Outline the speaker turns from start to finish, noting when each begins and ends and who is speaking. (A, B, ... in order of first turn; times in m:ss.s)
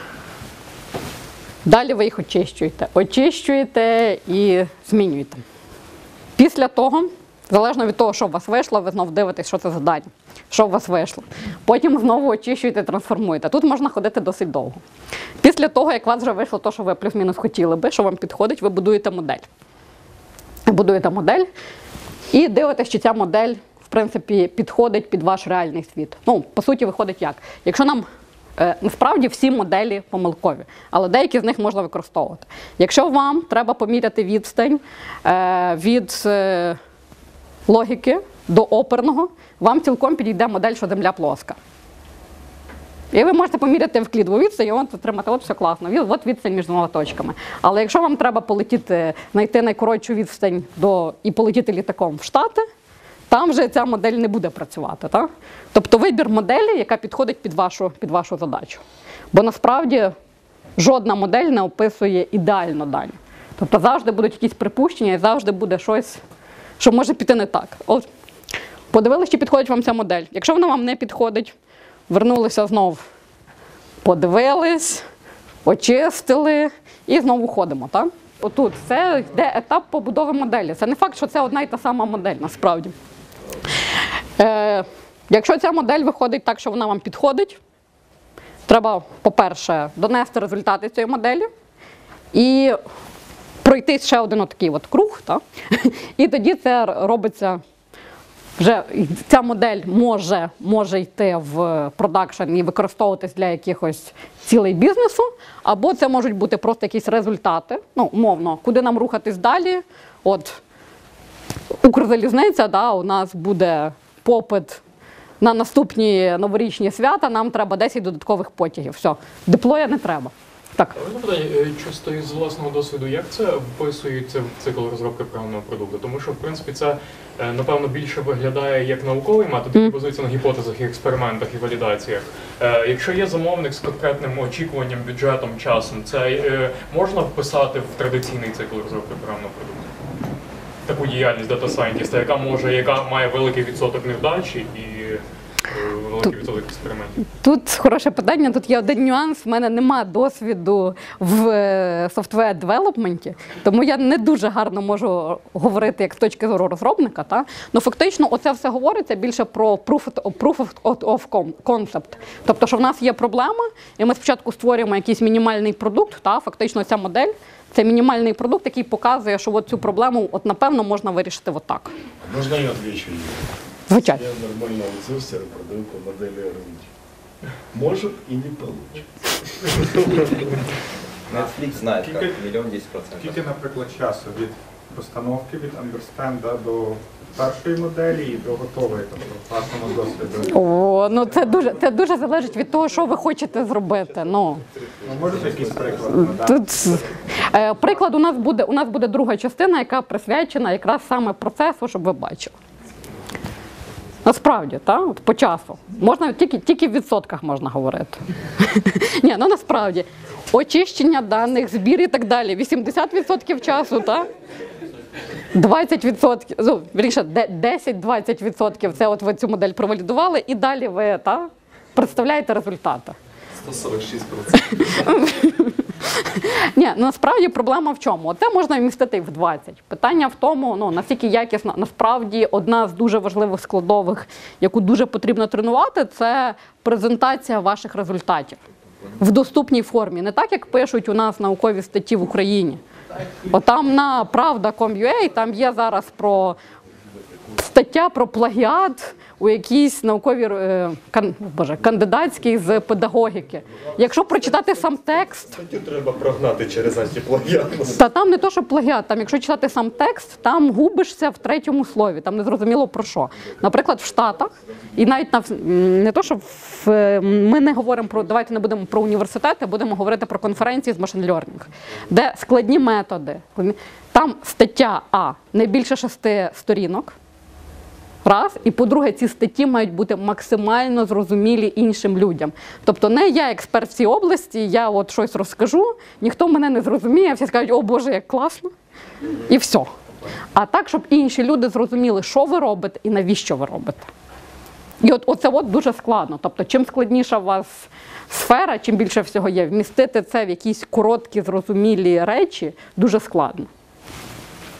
0:01.6-0:05.4 A
0:06.4-0:14.8 A
0:15.4-0:19.4 A
0:20.6-0:21.5 A
0:22.3-0:28.0 A
0:28.6-0:36.8 A
0:37.7-0:41.6 A
0:43.1-0:52.6 A
0:53.3-1:00.1 A
1:00.8-1:06.2 A
1:06.8-1:08.1 A
1:08.9-1:11.5 A
1:12.1-1:13.0 A
1:14.0-1:15.0 A
1:15.6-1:22.9 A
1:24.4-1:27.6 A
1:28.7-1:31.5 A
1:32.3-1:32.8 A
1:33.6-1:37.6 A
1:38.6-1:50.6 A
1:51.8-1:54.8 A
1:55.4-2:00.9 A
2:01.0-2:19.9 B
2:20.8-2:27.2 B
2:27.4-2:51.9 A
2:52.2-2:53.5 C
2:53.9-2:54.2 A
2:54.0-2:56.9 C
2:57.7-2:59.0 C
3:01.3-3:03.4 D
3:01.3-3:02.3 E
3:03.2-3:10.6 E
3:10.5-3:14.6 A
3:15.0-3:17.0 E
3:16.1-3:22.5 A
3:24.2-3:34.3 A
3:35.5-3:43.2 A
3:43.6-3:44.6 F
3:44.7-3:58.6 A
3:59.2-4:02.8 A
4:03.5-4:06.6 A
4:07.6-4:15.5 A
4:15.5-4:18.0 F
4:18.0-4:37.1 A
4:38.2-4:48.7 A
4:49.4-4:49.9 A
4:50.5-4:54.0 A
4:55.0-5:03.7 A